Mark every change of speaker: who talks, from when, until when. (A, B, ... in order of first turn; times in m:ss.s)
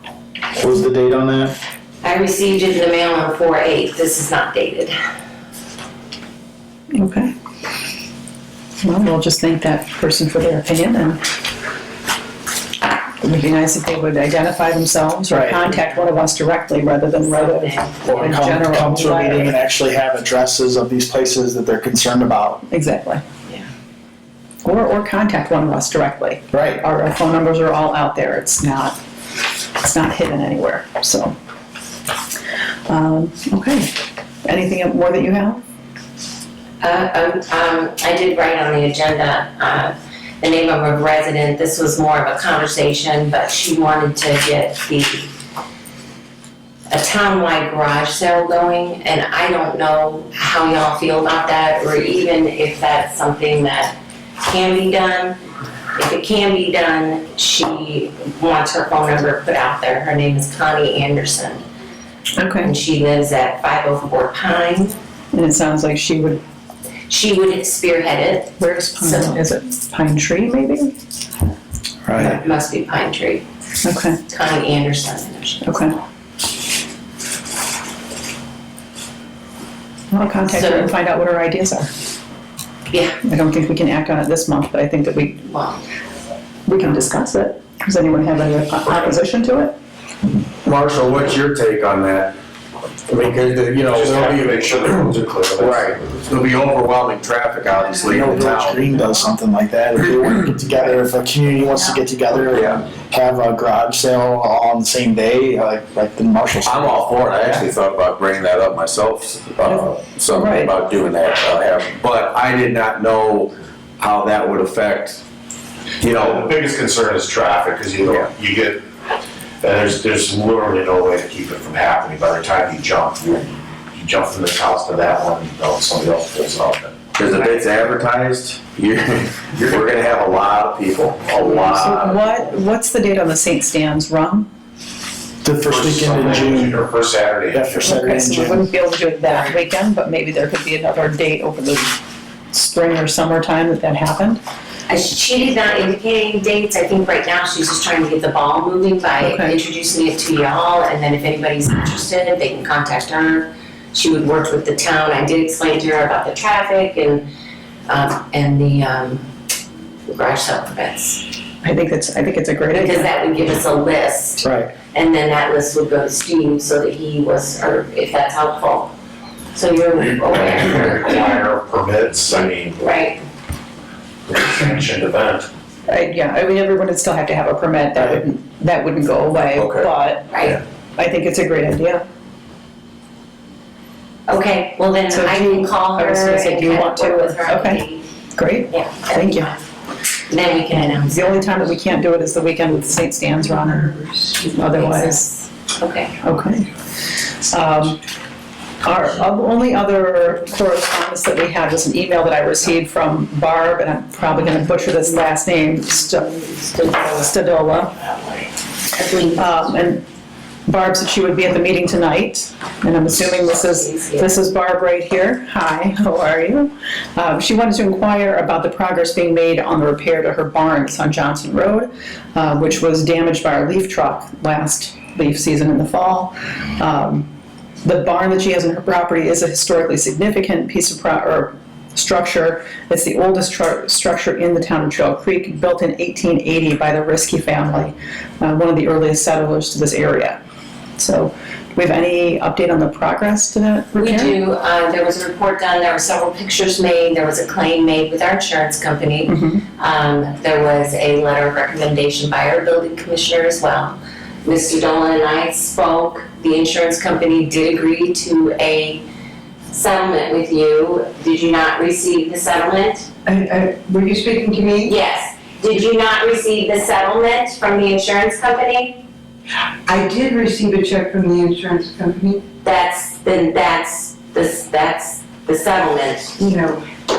0:00.6-0:01.6 A
0:02.0-0:05.0 B
0:06.9-0:07.3 C
0:08.8-0:11.2 C
0:13.2-0:19.6 C
0:15.3-0:15.7 A
0:17.2-0:18.3 B
0:18.0-0:22.6 A
0:22.7-0:23.2 C
0:24.6-0:29.0 C
0:26.5-0:26.8 A
0:29.8-0:31.4 C
0:32.9-0:33.9 C
0:34.4-0:35.6 C
0:36.8-0:45.3 B
0:46.9-0:55.4 B
0:56.0-1:01.6 B
1:02.4-1:02.7 C
1:02.6-1:05.0 B
1:05.3-1:06.4 C
1:07.1-1:09.4 B
1:08.6-1:10.9 C
1:12.0-1:12.4 A
1:12.2-1:13.4 B
1:13.8-1:14.2 C
1:14.3-1:15.9 B
1:15.6-1:15.9 C
1:20.1-1:21.9 C
1:20.4-1:21.0 B
1:22.9-1:23.2 B
1:23.2-1:25.4 C
1:25.4-1:25.8 B
1:26.7-1:29.8 C
1:30.6-1:32.3 D
1:33.1-1:34.9 D
1:33.8-1:36.2 E
1:35.6-1:38.8 D
1:37.7-1:38.5 F
1:38.0-1:47.1 A
1:42.5-1:42.8 D
1:46.6-1:55.2 D
1:49.7-1:50.8 C
1:56.0-1:56.4 D
1:56.0-1:58.8 E
1:59.6-2:07.2 E
2:07.2-2:12.2 D
2:09.6-2:10.3 E
2:11.7-2:14.5 C
2:15.4-2:16.8 A
2:15.6-2:18.0 E
2:17.5-2:18.7 A
2:17.8-2:22.0 C
2:22.5-2:24.4 C
2:24.9-2:37.2 B
2:29.2-2:29.6 C
2:37.9-2:39.3 B
2:40.1-2:41.2 B
2:41.6-2:43.1 C
2:42.7-2:48.9 B
2:44.4-2:44.7 A
2:49.5-2:51.4 B
2:49.9-2:52.9 E
2:52.3-2:53.2 B
2:54.3-2:55.5 E
2:55.9-3:00.3 C
2:59.6-2:59.9 D
3:00.3-3:00.6 B
3:01.0-3:02.0 C
3:04.3-3:08.0 B
3:05.1-3:07.8 C
3:08.4-3:09.5 C
3:08.7-3:09.6 B
3:10.3-3:11.6 B
3:10.7-3:13.9 C
3:13.4-3:14.6 F
3:14.5-3:15.3 C
3:14.7-3:16.2 B
3:16.2-3:16.7 C
3:17.4-3:18.0 C
3:18.8-3:27.9 C
3:26.4-3:29.7 B
3:29.4-3:30.0 C
3:30.7-3:47.3 C
3:33.5-3:34.4 B
3:47.8-4:00.4 C
4:01.0-4:04.4 C
4:04.0-4:19.0 B
4:09.3-4:09.6 C
4:19.7-4:23.1 B
4:23.3-4:25.0 F
4:24.8-4:29.0 B
4:29.9-4:32.4 F
4:32.6-4:36.4 B
4:36.4-4:36.8 F